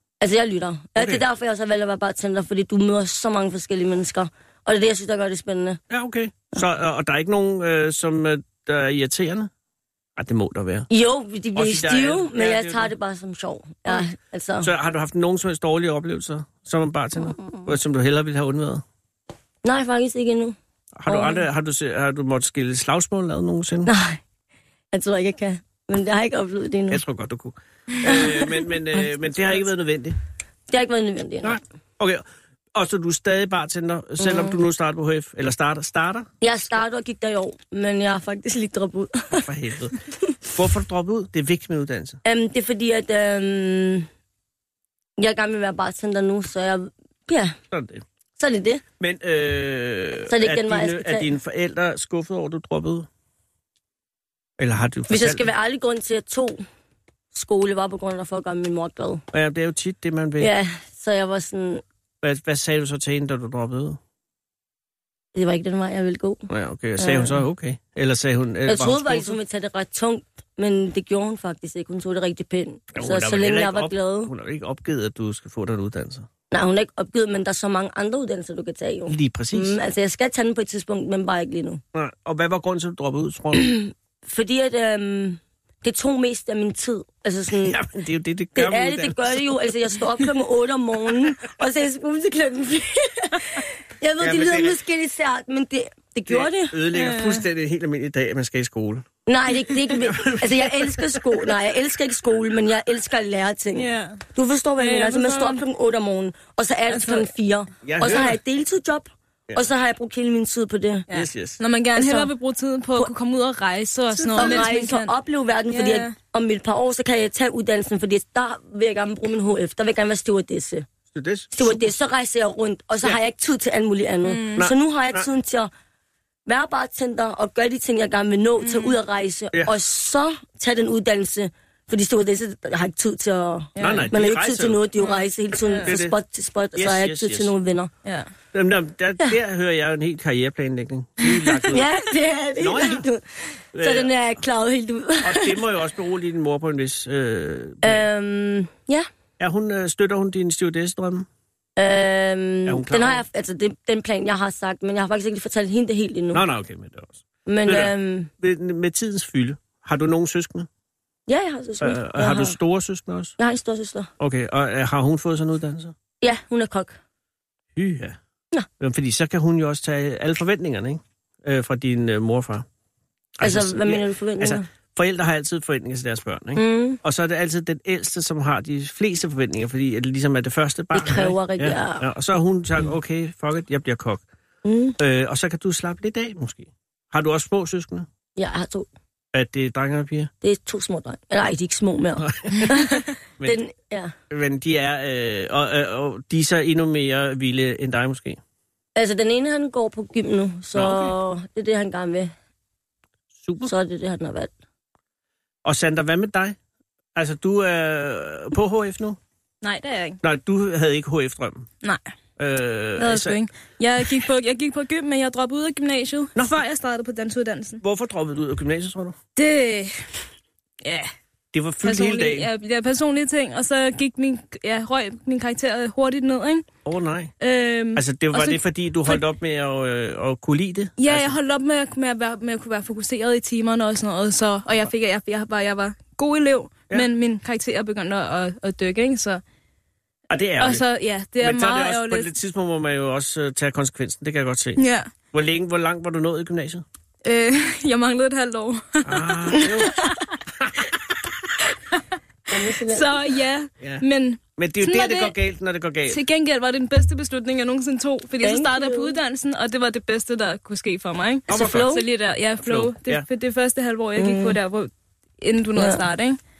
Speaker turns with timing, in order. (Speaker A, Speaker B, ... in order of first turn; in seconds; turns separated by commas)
Speaker A: 0.2-5.8, Speaker B: 0.9-1.2, Speaker B: 5.9-9.5, Speaker B: 10.2-10.9, Speaker A: 10.9-14.7, Speaker B: 11.5-12.9, Speaker B: 14.6-18.8, Speaker A: 19.6-20.6, Speaker B: 20.9-23.9, Speaker A: 21.1-21.4, Speaker A: 23.9-24.2, Speaker A: 24.9-27.0, Speaker B: 26.9-30.2, Speaker A: 28.1-29.6, Speaker A: 30.7-31.6, Speaker B: 31.4-36.3, Speaker A: 34.2-34.6, Speaker A: 36.4-39.4, Speaker B: 39.3-40.0, Speaker B: 40.5-42.2, Speaker A: 42.2-44.1, Speaker A: 45.2-47.5, Speaker B: 47.7-48.0, Speaker A: 48.4-48.8, Speaker B: 49.0-53.1, Speaker A: 50.3-51.3, Speaker B: 54.6-55.5, Speaker A: 55.1-56.6, Speaker A: 57.3-59.2, Speaker B: 59.3-60.5, Speaker A: 60.4-61.8, Speaker B: 62.2-64.0, Speaker A: 65.3-66.5, Speaker B: 66.5-69.4, Speaker A: 67.0-67.4, Speaker A: 68.7-74.3, Speaker B: 72.9-76.3, Speaker A: 76.5-81.8, Speaker B: 79.1-79.8, Speaker B: 81.9-83.7, Speaker A: 83.5-87.8, Speaker B: 87.6-89.5, Speaker A: 88.5-96.8, Speaker B: 94.2-94.8, Speaker B: 96.3-99.0, Speaker C: 96.9-97.4, Speaker A: 99.2-111.0, Speaker B: 100.0-101.2, Speaker C: 103.7-104.2, Speaker C: 104.8-105.6, Speaker C: 106.9-107.3, Speaker B: 107.8-108.4, Speaker C: 111.1-115.1, Speaker B: 111.1-111.6, Speaker A: 112.0-112.3, Speaker A: 114.1-120.8, Speaker C: 115.7-116.2, Speaker B: 121.1-121.8, Speaker A: 121.5-125.7, Speaker C: 124.2-124.7, Speaker B: 124.6-125.2, Speaker A: 126.5-137.9, Speaker C: 128.6-129.0, Speaker C: 133.8-134.1, Speaker B: 133.8-134.8, Speaker C: 135.0-135.9, Speaker B: 135.8-136.1, Speaker B: 136.7-137.5, Speaker C: 138.0-138.3, Speaker B: 138.5-141.8, Speaker A: 141.7-145.6, Speaker B: 142.6-143.0, Speaker B: 143.7-144.1, Speaker B: 145.2-148.0, Speaker A: 147.8-149.1, Speaker B: 149.4-151.3, Speaker A: 151.8-156.4, Speaker B: 152.7-153.2, Speaker B: 156.3-160.7, Speaker A: 157.4-158.3, Speaker A: 161.3-162.6, Speaker B: 161.8-163.3, Speaker A: 163.4-164.1, Speaker B: 164.2-165.9, Speaker A: 166.2-166.9, Speaker B: 167.8-168.2, Speaker B: 168.8-172.7, Speaker B: 173.4-184.2, Speaker A: 173.4-174.7, Speaker A: 176.6-177.0, Speaker A: 180.9-182.1, Speaker A: 184.6-184.9, Speaker B: 185.0-188.1, Speaker A: 188.3-188.9, Speaker B: 189.3-190.3, Speaker A: 190.4-194.1, Speaker B: 192.2-193.6, Speaker B: 194.3-198.4, Speaker A: 198.9-202.3, Speaker B: 200.7-201.1, Speaker B: 203.4-203.7, Speaker A: 203.6-204.5, Speaker B: 205.6-206.6, Speaker B: 207.1-209.2, Speaker C: 209.6-210.2, Speaker B: 210.2-211.7, Speaker B: 212.4-213.4, Speaker C: 213.0-217.8, Speaker B: 216.3-216.6, Speaker B: 217.8-219.2, Speaker C: 219.3-220.1, Speaker C: 220.8-221.1, Speaker B: 221.5-222.5, Speaker C: 221.8-226.7, Speaker B: 226.8-227.3, Speaker C: 227.4-229.2, Speaker B: 227.9-231.3, Speaker C: 231.0-239.4, Speaker B: 240.3-240.8, Speaker C: 240.6-242.3, Speaker B: 241.4-244.8, Speaker C: 244.8-245.1, Speaker B: 245.3-246.8, Speaker C: 247.2-250.2, Speaker B: 249.0-250.0, Speaker A: 252.5-253.2, Speaker C: 252.5-255.3, Speaker B: 254.6-256.2, Speaker C: 256.1-266.4, Speaker A: 258.4-259.2, Speaker B: 261.5-262.0, Speaker B: 262.6-263.2, Speaker A: 264.2-264.6, Speaker A: 265.8-266.0